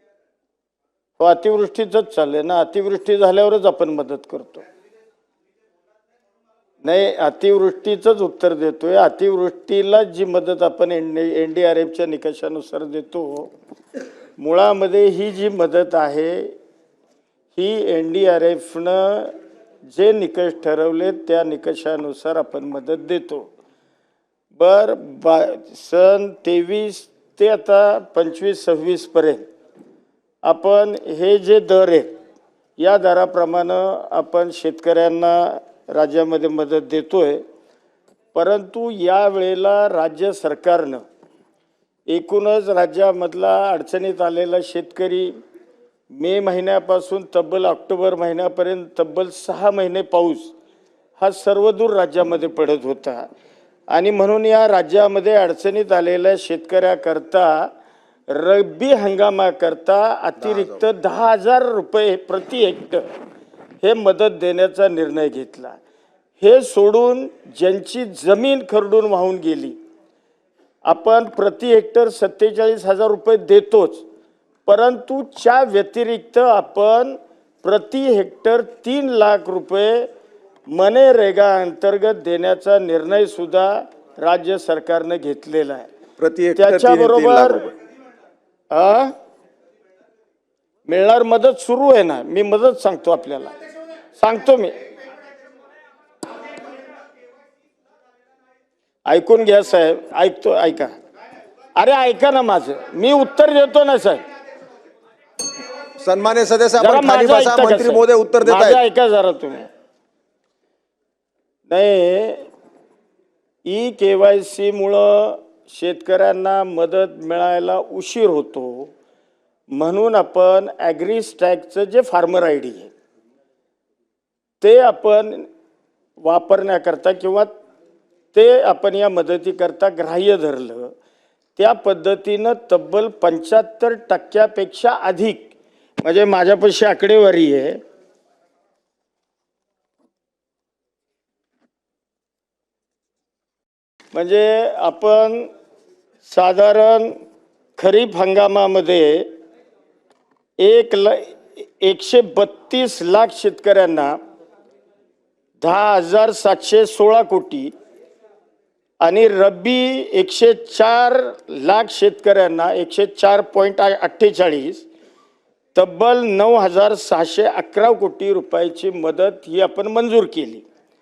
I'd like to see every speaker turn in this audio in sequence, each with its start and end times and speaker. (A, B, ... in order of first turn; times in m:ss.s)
0:01.2-0:04.7 A
0:06.8-0:13.5 A
0:14.4-0:16.5 A
0:17.6-0:19.3 A
0:19.9-0:23.5 A
0:24.5-0:29.4 A
0:30.4-0:32.1 A
0:32.8-0:37.4 A
0:38.3-0:41.0 A
0:42.1-0:45.3 A
0:46.1-0:50.5 A
0:51.2-0:53.3 A
0:53.9-0:57.7 A
0:58.3-1:03.0 A
1:00.4-1:00.8 B
1:03.8-1:05.8 A
1:06.4-1:09.8 A
1:10.8-1:14.0 A
1:14.7-1:20.1 A
1:20.7-1:25.9 A
1:26.2-1:27.7 B
1:26.6-1:27.6 A
1:28.7-1:29.1 A
1:30.8-1:33.5 A
1:34.2-1:34.8 A
1:39.1-1:41.0 A
1:41.8-1:44.2 A
1:46.0-1:48.8 B
1:46.8-1:49.7 A
1:51.7-1:52.5 A
1:53.6-1:58.9 A
1:59.7-2:02.9 A
2:04.6-2:05.5 A
2:06.2-2:07.5 A
2:08.3-2:10.9 A
2:11.6-2:15.5 A
2:16.0-2:17.8 A
2:24.1-2:25.5 A
2:26.2-2:27.2 A
2:27.8-2:29.3 A
2:30.6-2:34.2 A
2:35.6-2:37.7 A
2:39.0-2:44.9 A
2:45.7-2:50.6 A